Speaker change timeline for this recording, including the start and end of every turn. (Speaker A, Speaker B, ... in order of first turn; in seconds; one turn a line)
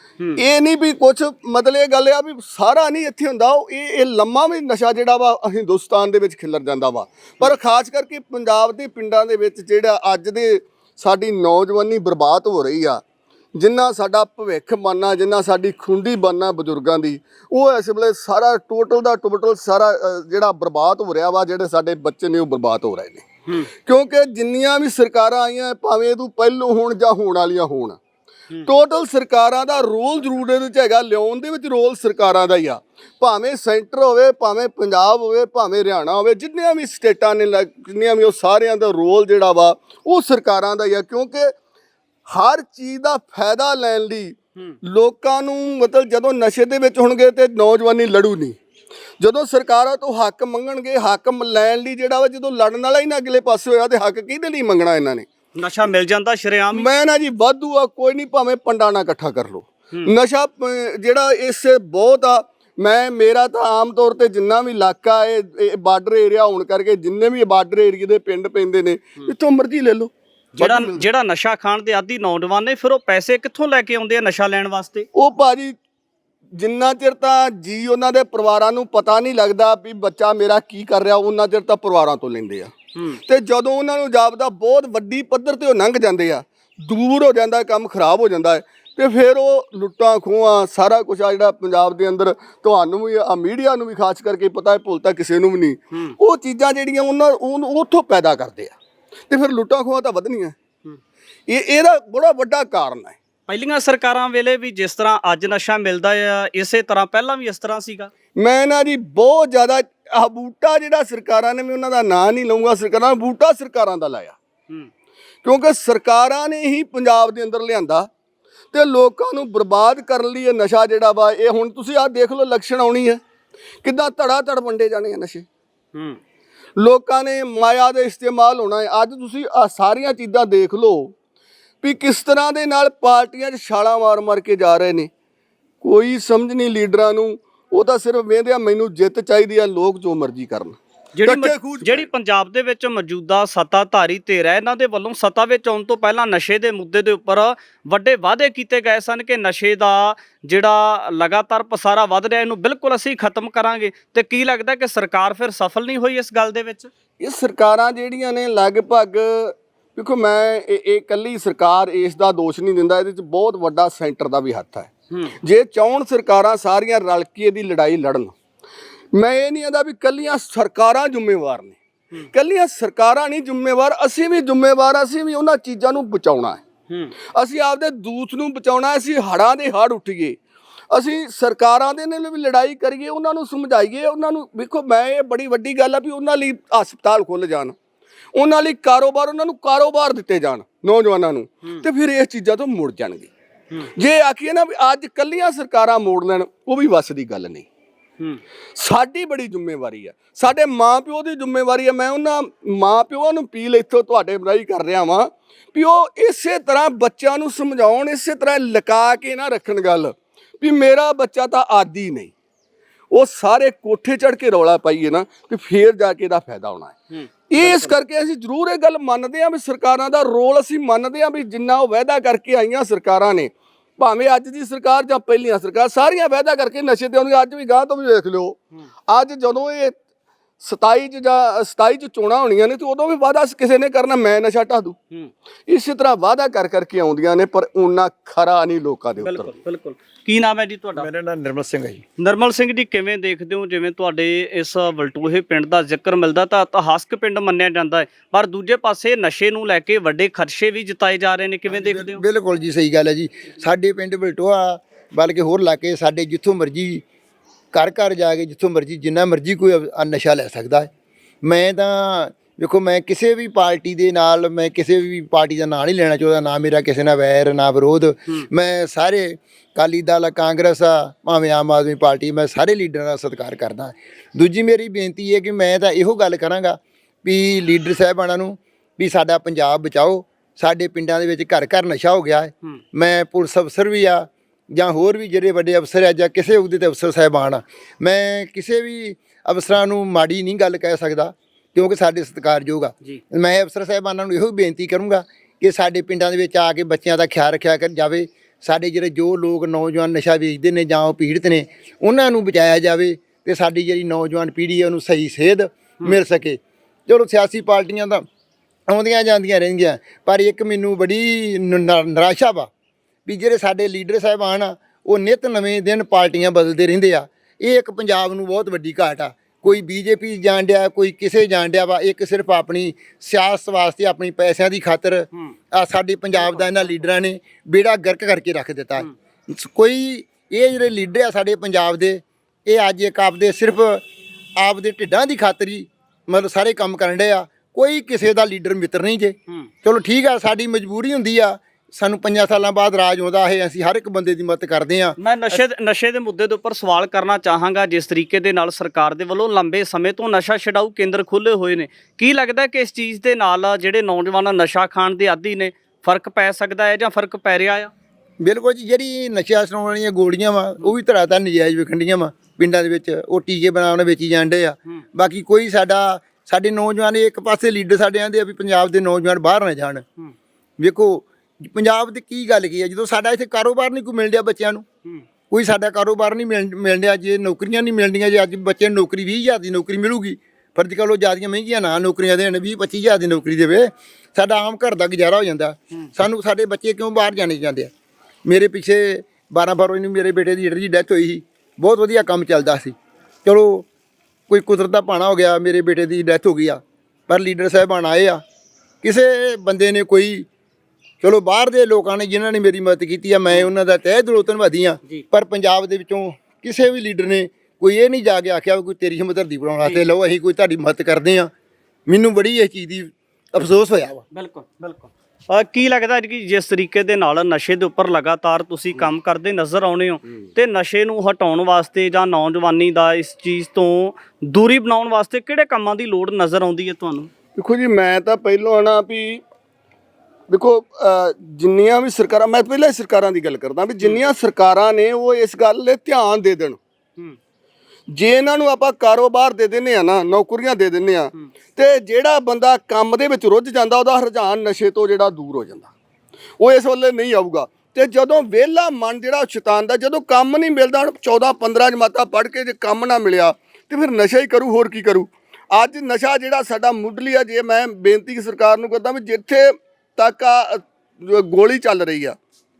Speaker A: 0.4-13.0
Speaker A: 13.5-23.3
Speaker A: 23.8-28.0
Speaker A: 28.6-41.5
Speaker A: 42.3-48.6
Speaker A: 49.2-55.2
Speaker B: 55.5-56.9
Speaker A: 56.7-71.0
Speaker B: 70.6-75.1
Speaker A: 75.1-75.7
Speaker A: 76.6-82.7
Speaker A: 83.2-98.7
Speaker A: 99.3-100.5
Speaker A: 101.5-103.2
Speaker B: 103.5-108.1
Speaker A: 108.3-114.4
Speaker A: 115.4-118.1
Speaker A: 118.7-123.2
Speaker A: 123.8-125.5
Speaker B: 125.9-126.2
Speaker A: 126.8-131.1
Speaker A: 131.8-135.1
Speaker A: 135.8-142.1
Speaker B: 141.2-156.9
Speaker A: 157.2-168.3
Speaker A: 169.1-171.8
Speaker A: 172.3-176.6
Speaker B: 176.9-177.1
Speaker A: 177.3-180.4
Speaker A: 180.9-187.7
Speaker A: 188.3-193.3
Speaker A: 193.9-197.7
Speaker A: 198.8-212.3
Speaker A: 213.1-216.9
Speaker B: 217.1-217.9
Speaker A: 217.5-228.6
Speaker A: 229.1-229.9
Speaker A: 230.6-234.9
Speaker A: 235.7-239.5
Speaker B: 239.2-241.1
Speaker C: 240.9-242.0
Speaker B: 242.2-252.2
Speaker C: 251.7-257.0
Speaker C: 257.7-260.9
Speaker C: 261.4-308.2
Speaker C: 308.9-312.7
Speaker C: 313.2-334.0
Speaker B: 326.4-326.7
Speaker C: 334.6-345.6
Speaker B: 345.2-357.9
Speaker C: 358.4-370.1
Speaker C: 370.8-374.9
Speaker C: 375.5-387.9
Speaker C: 388.4-393.9
Speaker C: 394.5-398.4
Speaker C: 399.0-400.5
Speaker C: 401.2-411.5
Speaker C: 412.1-414.2
Speaker B: 414.3-427.3
Speaker A: 427.6-429.4
Speaker A: 430.5-436.8
Speaker A: 438.1-445.9
Speaker A: 446.6-462.4